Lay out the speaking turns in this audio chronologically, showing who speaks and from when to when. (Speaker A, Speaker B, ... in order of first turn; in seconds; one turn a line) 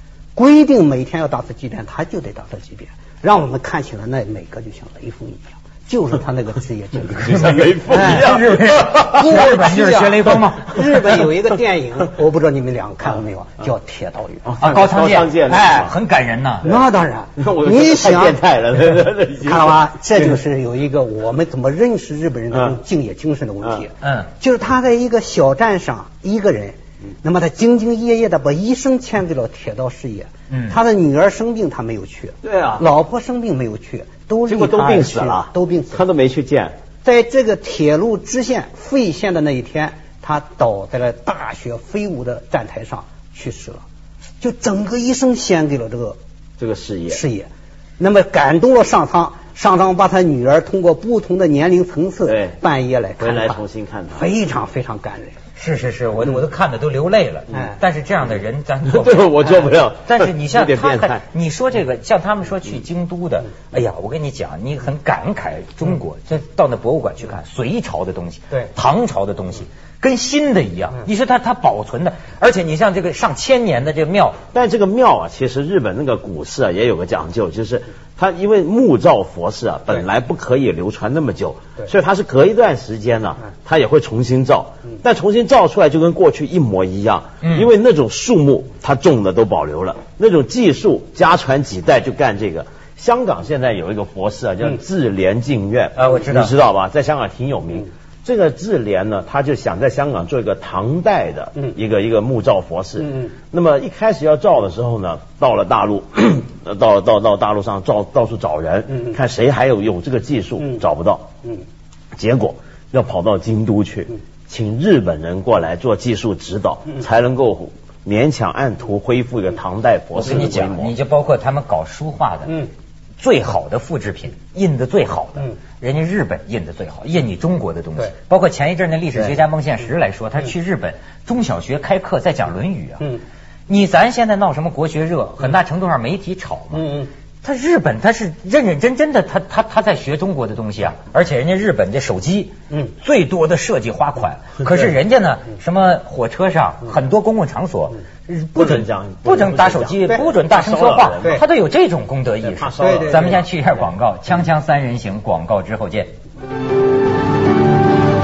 Speaker A: 0.3-14.5
Speaker B: 7.2-9.2
Speaker C: 7.8-11.2
Speaker B: 14.4-15.9
Speaker C: 14.6-16.6
Speaker A: 15.5-15.9
Speaker A: 16.6-18.4
Speaker B: 17.4-20.3
Speaker A: 19.4-36.0
Speaker C: 24.0-24.3
Speaker C: 30.5-30.8
Speaker B: 32.4-32.8
Speaker B: 34.5-36.8
Speaker A: 37.0-43.8
Speaker A: 44.4-46.2
Speaker B: 46.6-47.2
Speaker A: 47.1-47.5
Speaker A: 48.0-55.4
Speaker B: 52.3-52.6
Speaker B: 53.2-54.2
Speaker C: 55.5-74.4
Speaker B: 58.9-61.2
Speaker B: 74.5-111.3
Speaker C: 87.4-87.7
Speaker C: 96.0-96.5
Speaker B: 112.1-120.9
Speaker C: 120.2-122.6
Speaker C: 123.2-133.1
Speaker C: 133.7-136.9
Speaker A: 136.7-137.1
Speaker C: 137.4-156.1
Speaker B: 148.6-151.4
Speaker B: 152.4-153.4
Speaker A: 152.8-153.3